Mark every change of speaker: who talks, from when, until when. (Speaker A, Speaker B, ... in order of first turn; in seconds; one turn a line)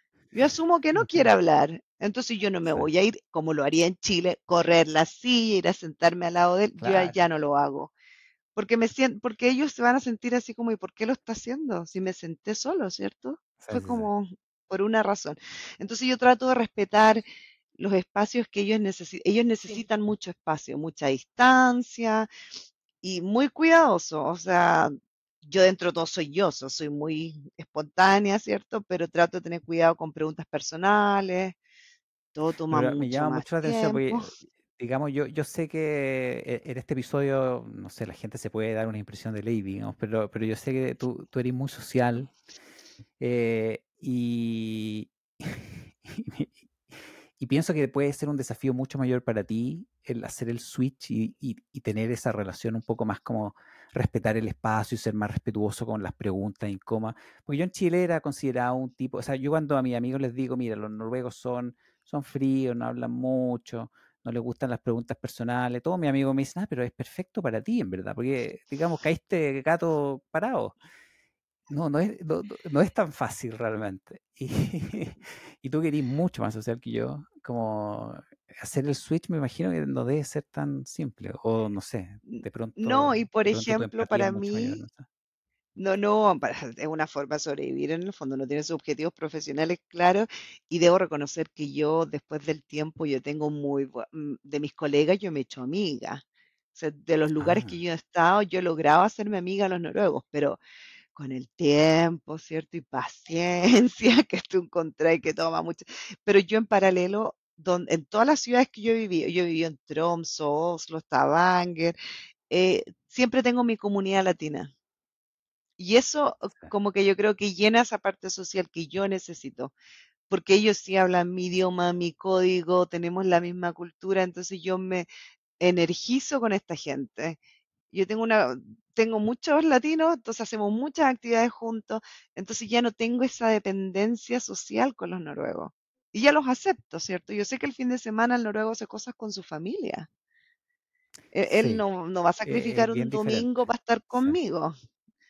Speaker A: 0.3-7.9
Speaker B: 0.9-1.3
Speaker B: 6.8-7.2
Speaker A: 8.6-17.2
Speaker B: 13.6-14.1
Speaker A: 17.8-22.3
Speaker A: 23.0-31.6
Speaker A: 32.3-34.3
Speaker B: 32.7-42.3
Speaker B: 43.2-70.8
Speaker B: 71.7-85.0
Speaker A: 82.3-84.8
Speaker A: 85.8-96.2
Speaker A: 96.7-100.6
Speaker B: 97.4-97.8
Speaker A: 101.1-112.0
Speaker A: 112.5-114.7
Speaker A: 115.8-119.7
Speaker A: 120.3-125.1
Speaker A: 125.6-127.4
Speaker A: 127.9-140.1
Speaker A: 141.3-144.7
Speaker B: 141.6-141.8
Speaker B: 142.4-143.5